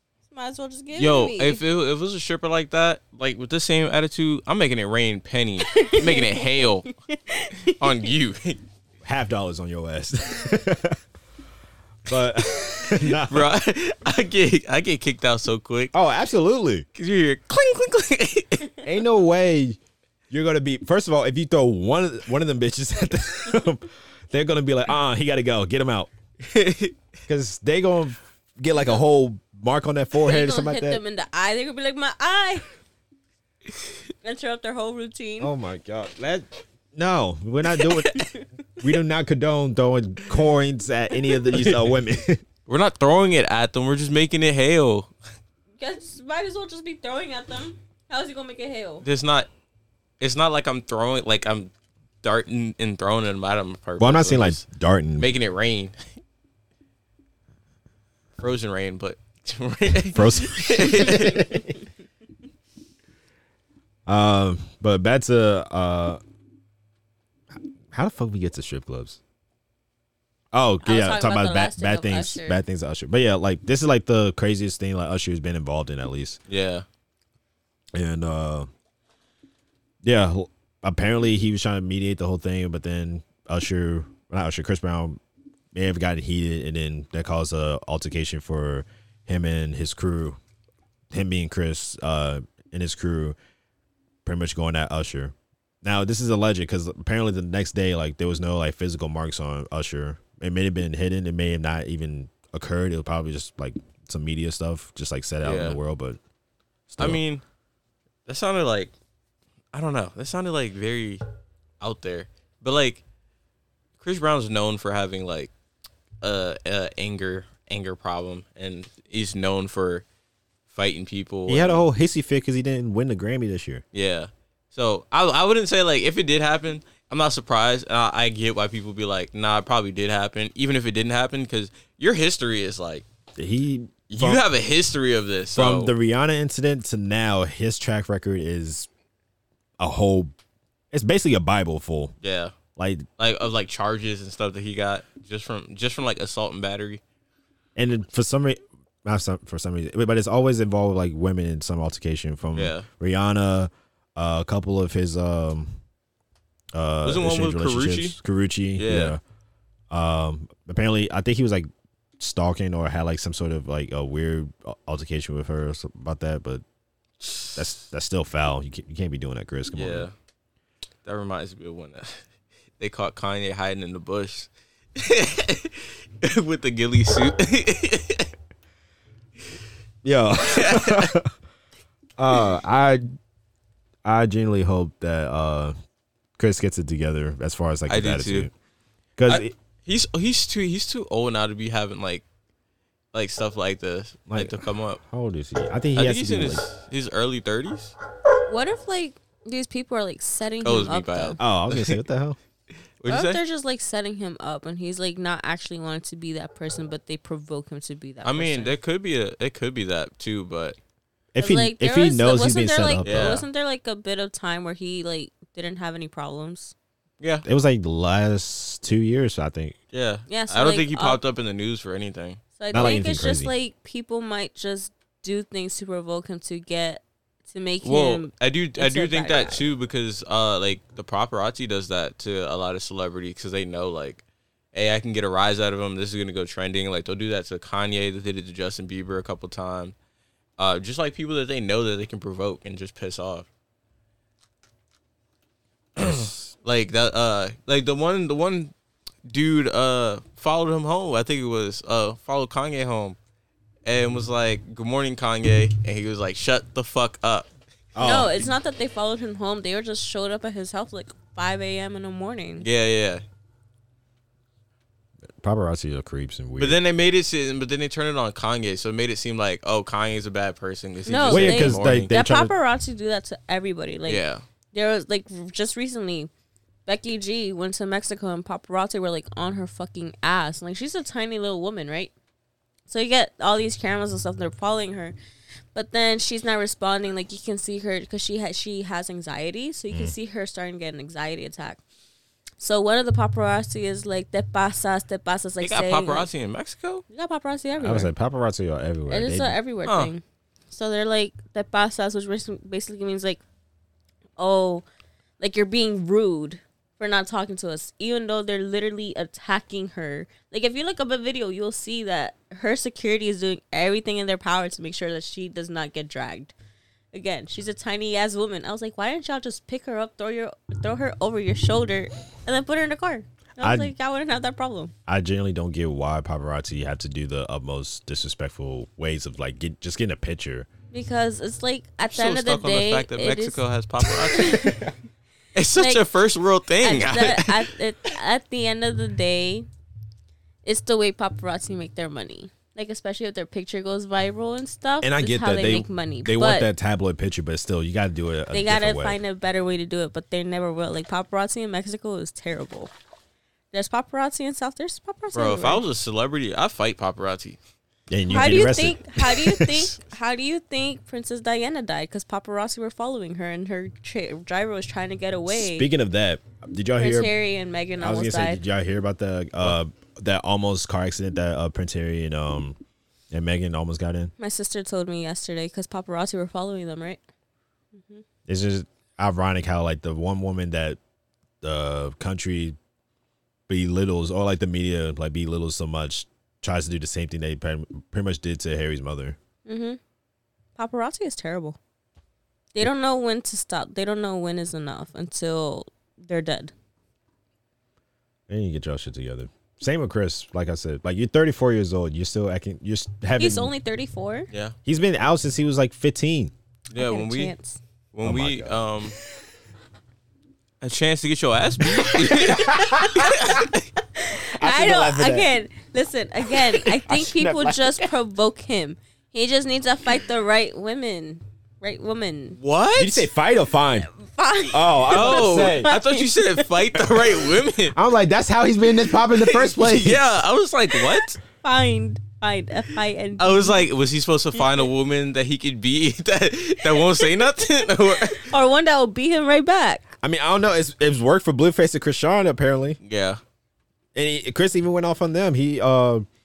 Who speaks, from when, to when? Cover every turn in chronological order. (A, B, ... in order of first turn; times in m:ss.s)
0:00.3-0:01.6 A
0:01.0-0:06.9 B
0:05.7-0:08.0 A
0:07.6-0:08.6 B
0:09.0-0:11.0 C
0:12.0-0:13.5 C
0:12.7-0:15.9 B
0:15.9-0:16.8 C
0:17.0-0:18.8 B
0:18.8-0:19.8 C
0:20.3-0:26.1 C
0:26.4-0:26.9 B
0:27.3-0:31.0 C
0:30.2-0:32.6 A
0:34.2-0:35.5 A
0:35.4-0:38.2 C
0:38.2-0:38.4 A
0:38.8-0:42.4 C
0:41.5-0:41.9 B
0:42.7-0:45.1 B
0:45.8-0:49.0 A
0:49.0-0:49.5 B
0:50.2-0:51.7 B
0:52.2-0:54.6 B
0:54.0-0:55.3 C
0:55.2-0:55.9 B
0:58.4-1:01.5 B
1:00.1-1:01.7 C
1:04.1-1:06.2 C
1:07.9-1:09.2 C
1:10.5-1:16.4 C
1:10.8-1:12.6 A
1:16.5-1:16.8 B
1:17.9-1:18.7 C
1:20.0-1:25.2 C
1:25.7-1:30.4 C
1:31.1-1:33.4 C
1:34.2-1:46.2 C
1:45.4-1:45.8 B
1:46.9-1:47.2 C
1:47.0-1:47.4 B
1:48.2-1:48.9 B
1:49.7-1:51.2 B
1:51.8-1:53.0 B
1:54.0-1:55.5 B
1:56.2-2:00.0 B
2:00.7-2:01.8 B
2:01.5-2:03.8 C
2:03.9-2:13.0 B
2:13.4-2:14.4 C
2:14.1-2:15.9 B
2:15.5-2:18.9 C
2:19.8-2:20.3 C
2:20.9-2:22.1 C
2:22.2-2:22.6 B
2:22.8-2:23.1 C
2:23.2-2:27.0 B
2:27.8-2:35.8 C
2:32.5-2:32.9 B
2:36.7-2:39.2 C
2:37.0-2:38.2 B
2:38.8-2:39.2 B
2:39.9-2:41.7 C
2:42.2-2:46.6 C
2:47.2-2:47.7 B
2:47.5-2:50.1 C
2:49.7-2:50.1 B
2:51.0-2:52.2 B
2:52.8-2:58.3 B
3:00.0-3:01.3 C
3:00.4-3:01.1 B
3:02.2-3:03.0 C
3:04.0-3:05.7 C
3:06.4-3:08.5 C
3:07.9-3:08.5 B
3:09.2-3:09.5 C
3:09.3-3:12.2 B
3:13.1-3:15.0 B
3:14.3-3:16.6 C
3:16.0-3:17.9 B
3:18.5-3:21.4 A
3:20.6-3:22.0 B
3:21.4-3:22.4 C
3:23.0-3:23.4 B
3:23.1-3:28.7 A
3:28.2-3:30.8 B
3:31.3-3:33.4 C
3:31.4-3:36.7 A
3:33.0-3:33.4 B
3:37.4-3:39.7 C
3:39.9-3:42.4 B
3:40.3-3:41.2 A
3:42.6-3:49.6 A
3:42.7-3:43.5 C
3:47.8-3:59.9 B
4:00.6-4:03.5 B
4:06.0-4:08.7 B
4:06.0-4:06.5 C
4:09.2-4:13.2 B
4:13.8-4:17.5 B
4:17.9-4:18.4 C
4:18.0-4:22.7 A
4:22.6-4:23.2 B
4:25.4-4:26.8 C
4:26.6-4:32.1 B
4:31.0-4:34.2 A
4:31.3-4:32.5 C
4:34.1-4:34.4 B
4:34.7-4:36.3 A
4:36.8-4:42.1 A
4:42.9-4:45.2 A
4:45.7-4:51.8 A
4:52.6-4:56.3 A
4:55.6-4:57.0 B
4:57.1-4:58.1 A
4:57.8-4:59.6 C
4:59.1-5:03.4 A
4:59.8-5:00.1 B
5:04.4-5:04.8 A
5:05.4-5:16.5 A
5:17.1-5:24.9 A
5:23.6-5:23.9 C
5:25.1-5:30.7 C
5:30.9-5:33.6 A
5:32.1-5:34.7 B
5:34.2-5:34.9 A
5:35.5-5:37.6 B
5:35.7-5:36.0 A
5:36.8-5:39.7 A
5:40.6-5:46.7 A
5:45.0-5:49.2 C
5:48.5-5:52.9 A
5:53.7-5:55.8 A
5:55.3-5:57.6 B
5:58.1-5:59.9 C
5:58.3-6:05.9 A
6:05.5-6:07.3 C
6:07.0-6:08.6 A
6:08.0-6:12.8 C
6:13.3-6:14.3 C
6:14.4-6:17.2 A
6:18.0-6:18.2 A
6:18.5-6:21.0 C
6:21.6-6:22.8 C
6:23.7-6:29.4 C
6:29.6-6:30.0 A
6:30.8-6:31.8 A
6:32.7-6:36.7 A
6:38.5-6:43.7 C
6:43.4-6:44.5 A
6:44.5-6:44.8 B
6:44.8-6:46.5 C
6:46.9-6:47.5 B
6:46.9-6:47.8 A
6:48.1-6:49.2 B
6:48.2-6:48.8 C
6:50.8-6:53.8 B
6:52.0-6:53.6 C
6:52.6-6:53.3 A
6:54.1-7:02.6 A
6:54.4-6:55.5 C
6:56.5-6:58.1 C
7:02.6-7:03.3 B
7:03.0-7:04.1 C
7:04.1-7:07.2 A
7:04.7-7:05.9 C
7:05.1-7:08.0 B
7:07.9-7:10.2 C
7:09.2-7:11.4 B
7:11.6-7:13.8 A
7:13.4-7:18.5 B
7:14.6-7:14.8 A
7:16.9-7:20.0 A
7:20.2-7:23.0 C
7:23.0-7:23.4 B
7:24.1-7:26.2 C